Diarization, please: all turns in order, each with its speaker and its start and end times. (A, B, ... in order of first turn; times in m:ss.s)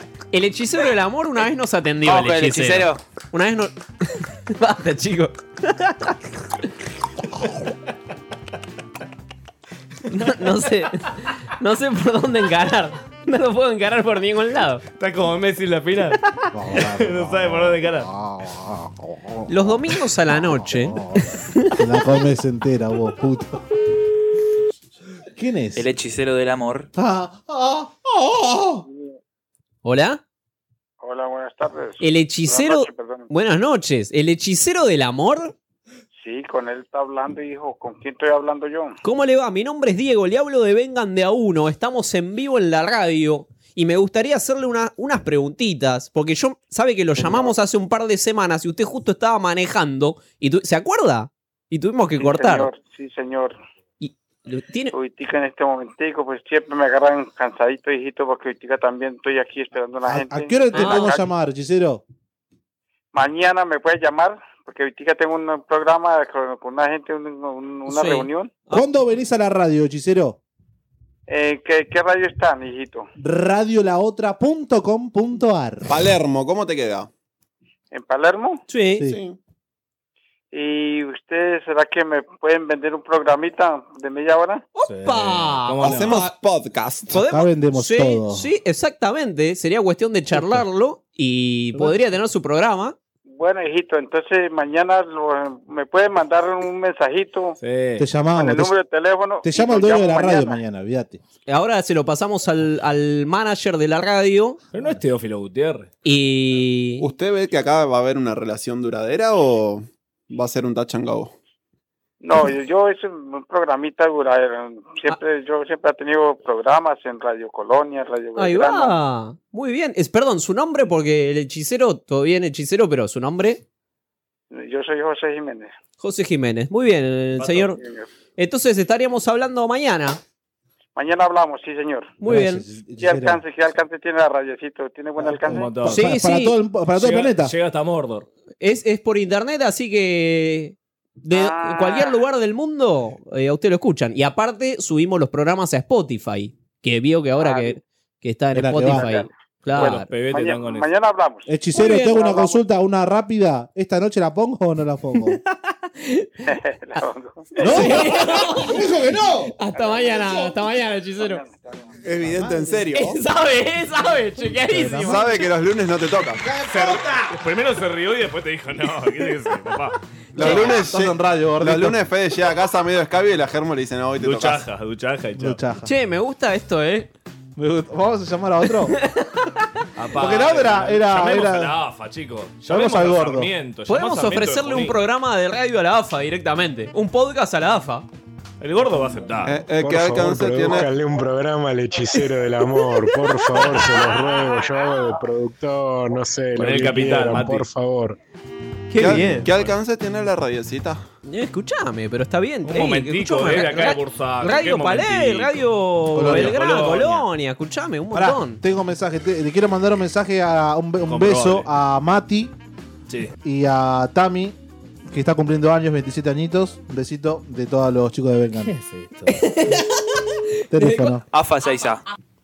0:00.3-0:06.2 A
0:02.0-0:03.0 B
0:10.1-0:14.8 A
0:14.9-0:16.2 C
0:16.5-0:19.8 D
0:16.7-0:18.1 C
0:19.5-0:21.6 A
0:20.4-0:23.6 D
0:25.3-0:25.9 D
0:25.7-0:26.9 B
0:26.9-0:28.8 D
0:29.8-0:30.2 A
0:31.0-0:33.3 E
0:32.0-0:35.5 A
0:36.2-0:39.0 E
0:39.0-0:52.7 A
0:52.2-0:53.6 E
0:54.0-0:54.9 A
0:54.9-1:01.2 E
1:00.0-1:02.0 D
1:00.7-1:01.2 A
1:03.1-1:08.5 E
1:07.9-1:08.8 A
1:08.7-1:10.4 D
1:11.3-1:13.1 E
1:13.2-1:16.0 D
1:15.9-1:17.1 F
1:17.9-1:18.6 E
1:18.7-1:19.1 A
1:19.0-1:19.4 F
1:20.5-1:24.6 E
1:24.8-1:26.3 A
1:24.9-1:26.2 C
1:25.8-1:27.2 F
1:27.1-1:32.9 A
1:27.2-1:28.5 D
1:31.7-1:32.1 D
1:33.3-1:37.6 E
1:37.6-1:38.0 C
1:38.0-1:38.7 D
1:38.3-1:40.6 E
1:39.4-1:41.2 D
1:41.5-1:44.6 A
1:44.7-1:45.9 C
1:46.0-1:47.0 A
1:47.0-1:51.3 F
1:52.2-1:59.0 E
1:58.4-2:03.6 A
2:04.5-2:05.7 E
2:06.0-2:07.8 A
2:07.4-2:07.7 C
2:07.8-2:08.1 E
2:08.4-2:10.2 A
2:11.0-2:12.1 E
2:12.2-2:12.6 A
2:12.2-2:13.4 D
2:13.0-2:15.7 E
2:15.2-2:17.5 D
2:15.5-2:16.1 C
2:15.9-2:16.5 A
2:17.0-2:18.3 C
2:18.6-2:30.1 A
2:21.3-2:22.1 E
2:27.4-2:27.8 E
2:28.5-2:29.2 D
2:28.9-2:29.3 E
2:29.7-2:30.9 C
2:30.3-2:32.5 E
2:31.5-2:35.4 D
2:31.7-2:32.5 A
2:36.0-2:36.3 A
2:36.5-2:37.9 E
2:37.6-2:39.4 D
2:37.6-2:38.9 A
2:39.5-2:41.4 A
2:41.2-2:41.8 E
2:42.0-2:43.2 F
2:42.3-2:42.8 D
2:42.9-2:45.4 A
2:44.6-2:45.2 D
2:45.0-2:46.4 F
2:46.7-2:50.0 C
2:46.7-2:47.0 D
2:50.3-2:54.6 F
2:50.4-2:50.7 A
2:50.4-2:52.0 D
2:54.2-2:55.6 C
2:55.4-2:55.9 D
2:55.8-2:57.1 A
2:57.6-2:58.9 D
2:58.9-2:59.6 A
3:00.0-3:05.0 C
3:00.2-3:01.7 D
3:02.7-3:03.5 D
3:03.9-3:08.1 A
3:08.6-3:09.6 C
3:09.4-3:10.9 F
3:09.8-3:18.2 G
3:13.6-3:14.0 A
3:16.5-3:17.7 C
3:18.9-3:19.4 A
3:19.0-3:21.0 F
3:21.2-3:28.6 A
3:22.6-3:27.2 C
3:26.1-3:26.5 D
3:28.1-3:32.5 D
3:31.0-3:31.7 C
3:33.1-3:33.3 C
3:33.4-3:38.7 D
3:38.6-3:39.5 C
3:39.3-3:39.9 A
3:40.7-3:41.2 D
3:40.7-3:41.1 A
3:41.3-3:42.0 B